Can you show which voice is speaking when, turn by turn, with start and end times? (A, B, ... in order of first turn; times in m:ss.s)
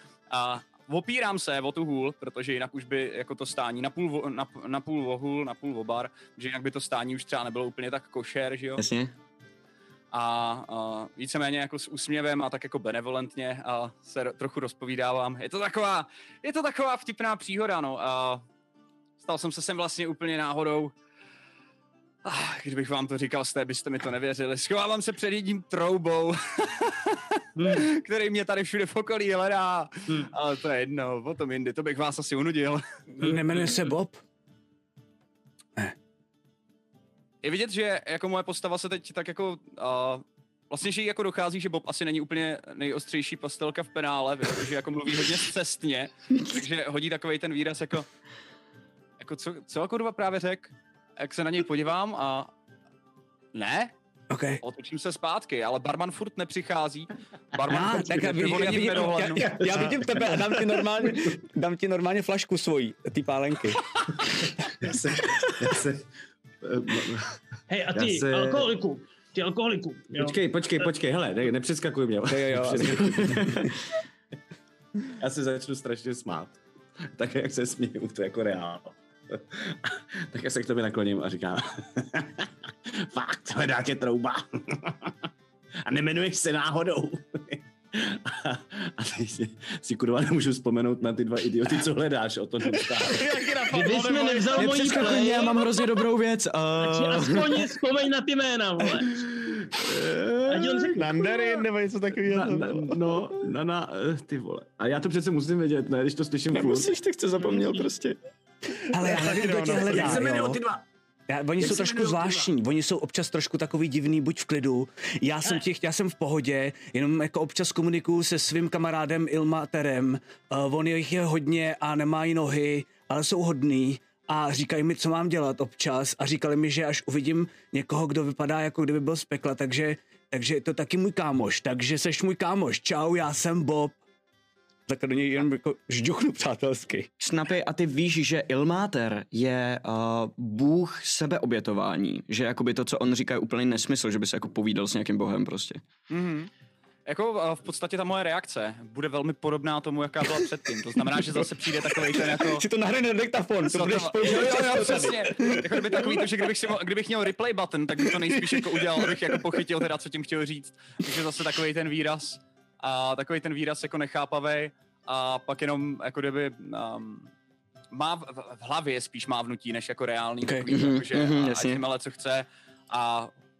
0:00.3-0:08.8 A
0:08.8-0:09.1 B
0:10.1-0:18.4 A
0:19.2-0:20.9 A
0:22.2-0:32.8 A
0:27.6-0:27.8 C
0:33.1-0:34.2 D
0:37.4-0:48.0 A
0:49.2-0:52.5 A
0:53.5-0:53.9 A
0:54.3-0:54.6 D
0:54.6-0:59.5 A
0:57.6-1:03.8 D
0:57.8-1:01.4 E
1:04.8-1:06.0 E
1:06.6-1:07.4 E
1:07.7-1:10.4 C
1:07.9-1:08.7 E
1:10.1-1:13.7 E
1:12.3-1:13.7 D
1:15.2-1:16.6 E
1:17.1-1:25.1 E
1:25.8-1:33.3 E
1:33.0-1:35.0 F
1:33.7-1:35.7 C
1:34.5-1:37.6 B
1:36.8-1:39.2 C
1:39.1-1:40.6 E
1:40.4-1:41.1 C
1:40.9-1:43.2 F
1:42.2-1:46.9 E
1:46.5-1:48.2 B
1:48.9-1:50.2 F
1:48.9-1:50.6 D
1:49.3-1:50.8 E
1:51.3-2:14.0 D
1:51.6-1:52.5 E
2:14.9-2:17.1 D
2:17.2-2:25.8 B
2:26.1-2:26.5 A
2:27.0-2:32.6 A
2:31.1-2:36.5 D
2:33.7-2:47.3 A
2:38.0-2:39.4 D
2:47.9-2:53.3 A
2:50.4-2:50.7 D
2:50.7-2:51.8 B